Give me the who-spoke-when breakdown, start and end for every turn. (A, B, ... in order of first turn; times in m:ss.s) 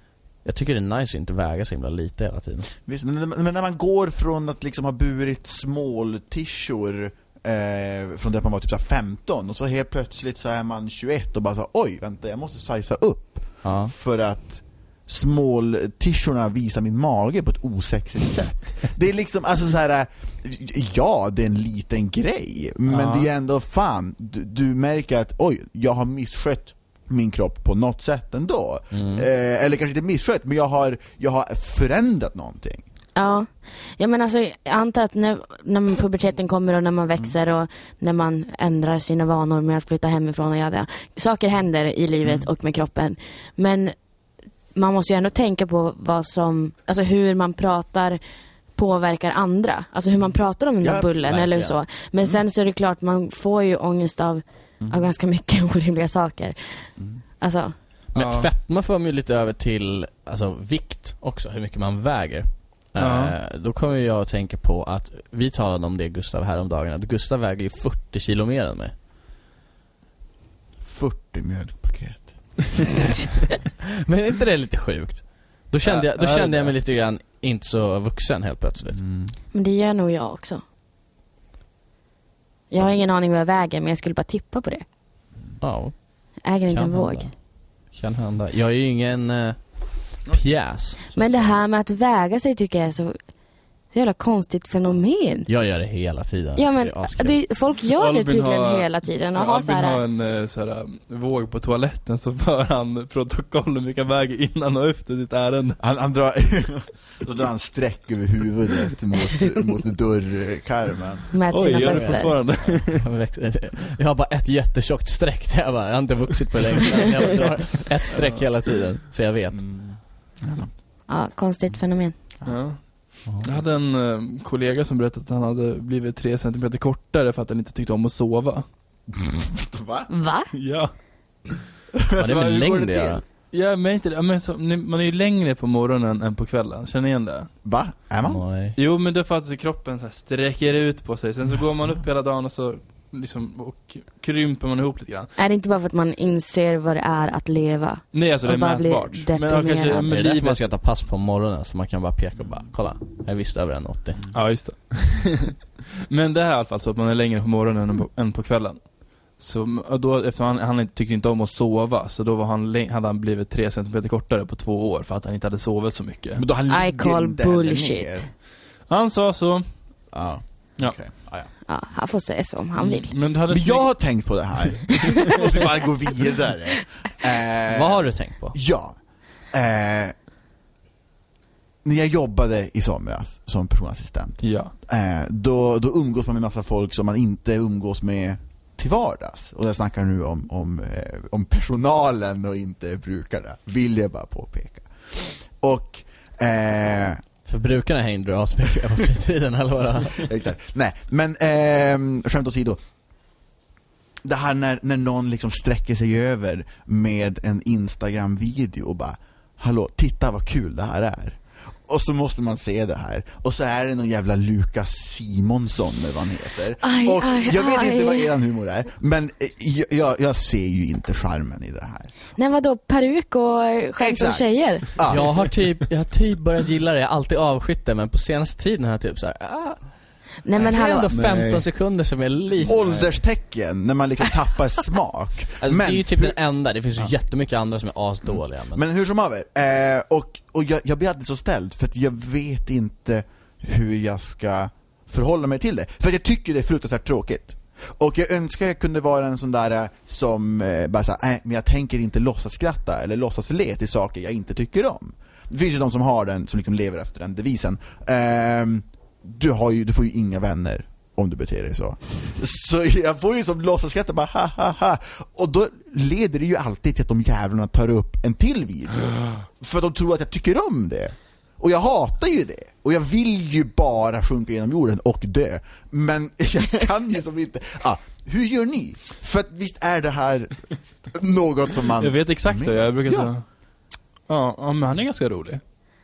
0:00.4-0:02.7 A
0:02.8-0:32.8 B
0:13.6-0:13.9 A
0:22.9-0:23.3 C
0:28.9-0:29.3 A
0:33.1-0:43.9 D
0:44.7-0:48.2 D
0:48.8-0:56.9 D
0:50.8-0:51.8 A
0:57.4-0:57.7 D
0:58.1-0:58.5 C
0:58.1-1:08.9 A
1:03.0-1:03.3 C
1:10.8-1:12.8 B
1:13.9-1:19.0 A
1:15.8-1:16.7 C
1:19.0-1:19.3 B
1:19.5-1:20.6 D
1:22.7-1:24.8 D
1:25.6-1:26.0 A
1:26.4-1:27.3 D
1:26.7-1:27.4 A
1:27.9-1:31.5 A
1:31.1-1:33.2 D
1:33.9-1:35.5 D
1:35.5-1:37.4 A
1:36.6-1:40.0 D
1:38.0-1:45.8 C
1:45.8-1:51.3 B
1:51.3-1:52.3 D
1:51.5-1:53.0 C
1:51.6-1:59.6 A
1:59.5-2:00.7 B
2:01.1-2:02.1 D
2:02.4-2:08.6 C
2:03.2-2:03.5 A
2:09.1-2:10.1 B
2:10.1-2:10.5 D
2:10.5-2:10.9 C
2:11.9-2:13.2 B
2:12.2-2:13.2 A
2:13.5-2:17.5 C
2:17.6-2:18.4 B
2:18.2-2:18.8 A
2:18.8-2:25.3 C
2:25.4-2:30.0 D
2:28.1-2:30.6 C
2:30.0-2:34.3 A
2:34.3-2:38.9 C
2:39.4-2:46.4 C
2:46.4-2:48.3 B
2:46.7-2:48.2 D
2:48.9-2:49.6 C
2:50.1-2:51.5 B
2:51.7-2:53.1 D
2:52.8-2:53.9 C
2:53.5-2:58.9 B
2:55.0-2:55.4 D
2:57.7-2:58.6 A
2:59.5-3:00.1 B
3:01.8-3:17.2 B
3:04.4-3:04.7 C
3:17.5-3:20.3 A
3:20.1-3:22.8 B
3:24.2-3:42.1 B
3:36.8-3:38.3 D
3:42.4-3:45.0 D
3:44.0-3:45.4 B
3:45.0-3:49.8 A
3:50.4-3:51.1 D
3:50.6-3:53.2 A
3:51.1-3:51.6 C
3:52.6-3:56.3 B
3:55.6-3:58.8 A
3:58.7-4:43.3 B
4:42.0-4:43.4 C
4:44.3-4:45.6 C